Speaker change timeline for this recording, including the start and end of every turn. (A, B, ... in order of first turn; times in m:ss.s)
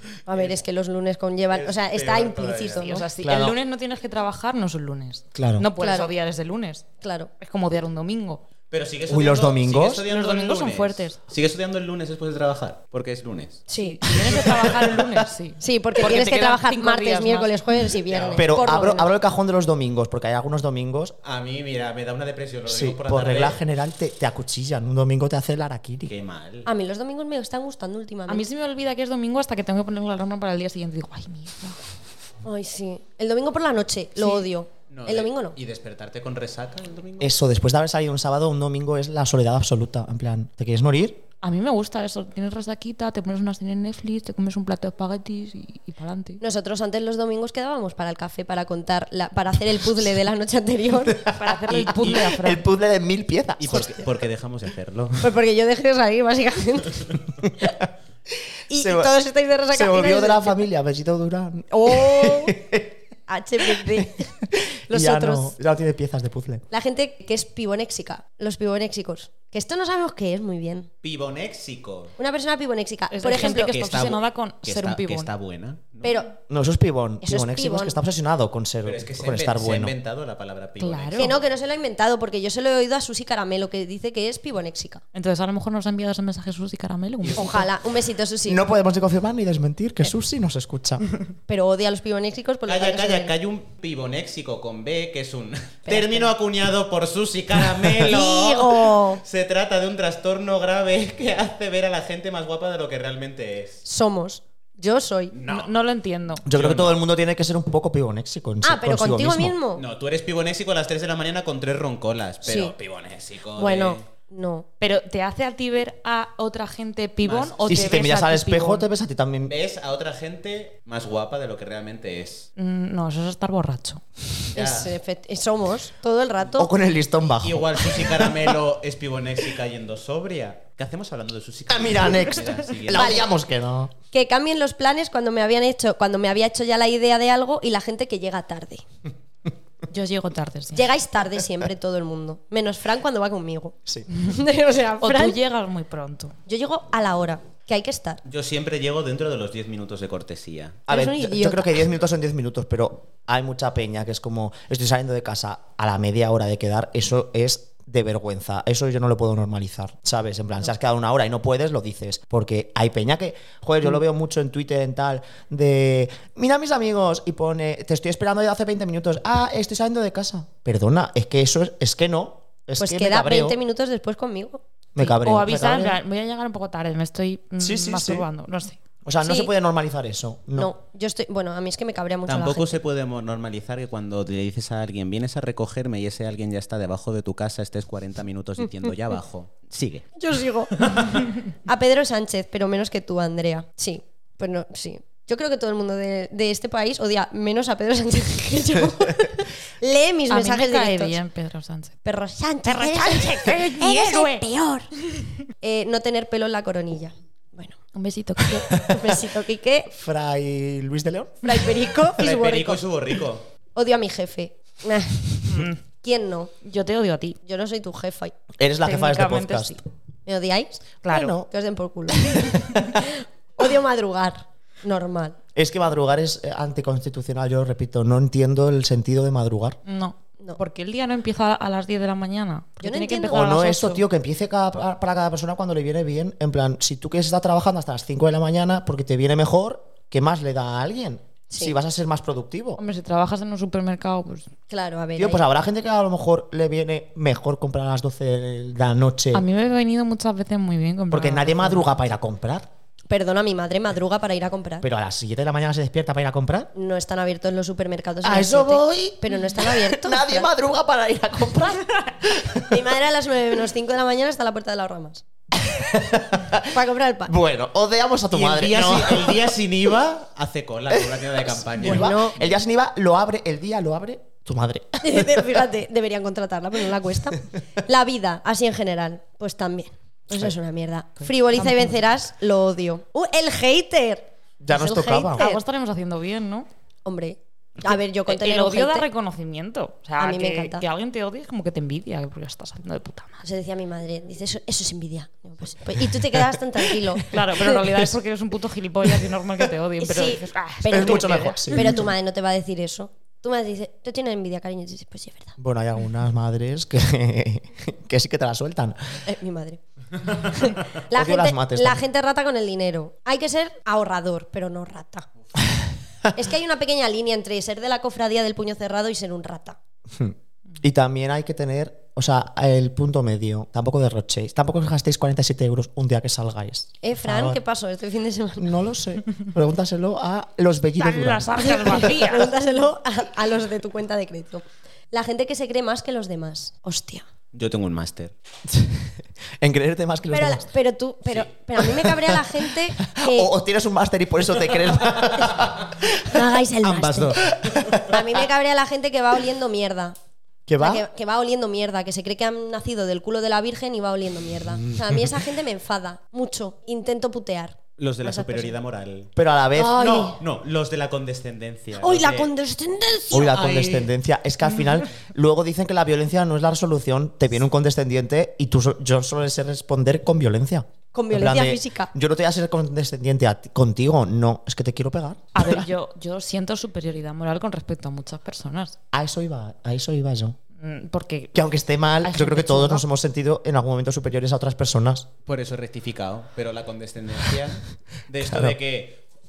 0:00.3-0:03.0 A
0:00.3-0:00.6 B
0:01.5-0:02.8 B
0:02.7-0:06.9 C
0:03.2-0:03.6 D
0:05.4-0:05.7 D
0:05.8-0:06.1 A
0:07.0-0:07.3 A
0:07.4-0:08.4 C
0:08.7-0:13.7 B
0:09.1-0:10.1 D
0:10.1-0:11.2 C
0:13.7-0:14.0 A
0:13.7-0:17.6 C
0:15.6-0:19.1 A
0:18.0-0:18.6 B
0:18.3-0:21.2 D
0:21.2-0:23.6 B
0:22.7-0:26.1 D
0:26.1-0:26.7 B
0:26.6-0:28.5 A
0:28.3-0:31.8 C
0:32.4-0:35.6 A
0:34.9-0:37.4 B
0:37.2-0:41.2 D
0:41.4-0:46.4 C
0:46.4-0:51.3 A
0:51.1-0:54.0 D
0:51.3-0:52.6 C
0:51.8-0:52.1 B
0:53.6-0:55.3 B
0:55.2-0:57.7 A
0:58.7-1:00.6 A
0:58.7-0:59.1 D
0:59.7-1:03.0 D
1:01.7-1:02.6 A
1:03.3-1:04.3 A
1:03.6-1:06.6 D
1:04.9-1:05.5 A
1:06.7-1:10.9 A
1:11.0-1:12.1 B
1:12.2-1:13.7 A
1:13.1-1:15.3 C
1:13.3-1:16.2 B
1:16.0-1:16.4 A
1:16.5-1:19.9 D
1:17.2-1:18.0 A
1:18.8-1:21.5 B
1:20.8-1:21.4 C
1:21.2-1:25.0 A
1:25.1-1:27.7 C
1:27.2-1:27.5 B
1:27.4-1:28.6 A
1:28.5-1:31.1 D
1:31.5-1:33.3 A
1:32.7-1:43.8 B
1:35.9-1:36.3 A
1:38.0-1:39.2 A
1:43.8-1:45.3 A
1:45.3-1:45.7 B
1:45.5-1:46.4 C
1:46.4-1:49.6 D
1:46.5-1:47.0 B
1:48.6-1:49.8 A
1:49.7-1:54.0 B
1:52.4-1:52.7 A
1:53.6-1:54.7 A
1:54.8-1:58.8 C
1:57.2-1:57.8 B
1:57.7-1:59.6 D
1:59.5-2:02.5 B
2:02.6-2:04.0 C
2:04.5-2:05.0 B
2:04.6-2:06.7 A
2:06.6-2:08.5 D
2:07.4-2:13.2 B
2:11.7-2:13.9 D
2:12.9-2:13.3 A
2:14.1-2:18.8 A
2:19.9-2:20.9 C
2:20.7-2:25.4 A
2:25.0-2:26.4 C
2:26.5-2:28.2 A
2:28.2-2:30.9 B
2:30.9-2:53.6 D
2:30.9-2:31.8 A
2:52.8-2:54.6 A
2:55.0-2:56.0 D
2:55.0-2:58.8 C
2:57.6-2:58.3 D
2:59.0-3:00.7 D
2:59.2-2:59.5 A
3:00.6-3:02.8 A
3:02.3-3:10.1 B
3:10.2-3:21.2 A
3:20.3-3:22.0 C
3:22.0-3:24.9 A
3:22.6-3:24.5 C
3:25.6-3:27.8 A
3:27.9-3:28.8 C
3:28.8-3:29.2 D
3:28.8-3:29.9 A
3:29.9-3:32.0 D
3:31.4-3:32.8 A
3:32.2-3:33.5 B
3:33.8-3:36.5 A
3:35.5-3:35.8 C
3:36.6-3:37.4 C
3:37.4-3:38.4 A
3:38.6-3:39.8 D
3:38.8-3:39.8 C
3:40.3-3:45.4 A
3:41.0-3:41.3 C
3:41.1-3:41.5 D
3:42.1-3:43.0 D
3:45.6-3:49.8 D
3:49.9-3:54.0 C
3:52.8-3:53.5 A
3:53.2-4:02.8 D
4:02.8-4:04.5 C
4:04.7-4:05.4 A
4:05.2-4:09.4 D
4:09.3-4:11.9 C
4:11.1-4:12.7 D
4:13.1-4:14.9 A
4:14.8-4:16.7 D
4:16.7-4:20.5 A
4:18.2-4:22.8 D
4:22.6-4:25.2 A
4:25.6-4:26.7 D
4:26.7-4:27.3 A
4:27.3-4:29.5 D
4:28.3-4:32.5 B
4:31.7-4:35.6 D
4:31.8-4:32.4 A
4:35.0-4:45.6 A
4:41.2-4:42.0 C
4:44.6-4:45.5 D
4:45.4-4:46.7 C
4:47.0-4:49.1 A
4:48.3-4:53.4 C
4:50.2-4:50.9 A
4:53.4-4:57.9 A
4:57.3-5:01.5 C
5:00.0-5:05.6 A
5:00.9-5:02.1 D
5:05.6-5:09.2 D
5:09.2-5:15.3 A
5:11.1-5:12.0 D
5:16.4-5:19.8 A
5:20.1-5:27.6 D
5:27.0-5:28.7 A
5:28.6-5:32.0 D
5:31.0-5:32.5 C
5:31.7-5:37.2 A
5:37.5-5:38.3 B
5:38.7-5:40.7 D
5:40.3-5:43.5 A
5:42.1-5:46.1 D
5:46.3-5:47.4 A
5:46.8-5:48.2 B
5:47.6-5:48.0 D
5:48.0-5:50.2 A
5:50.7-5:51.1 D
5:50.8-5:58.8 A
5:55.0-5:55.3 D
5:58.0-5:59.3 B
5:59.4-6:00.3 D
5:59.8-6:00.4 A
5:59.8-6:02.5 B
6:02.0-6:03.9 A
6:03.3-6:15.9 D
6:03.4-6:03.9 B
6:11.1-6:12.1 A
6:15.6-6:19.0 C
6:19.1-6:20.6 D
6:20.8-6:21.6 C
6:21.5-6:25.3 D
6:22.2-6:23.0 C
6:25.5-6:29.2 B
6:28.4-6:28.8 D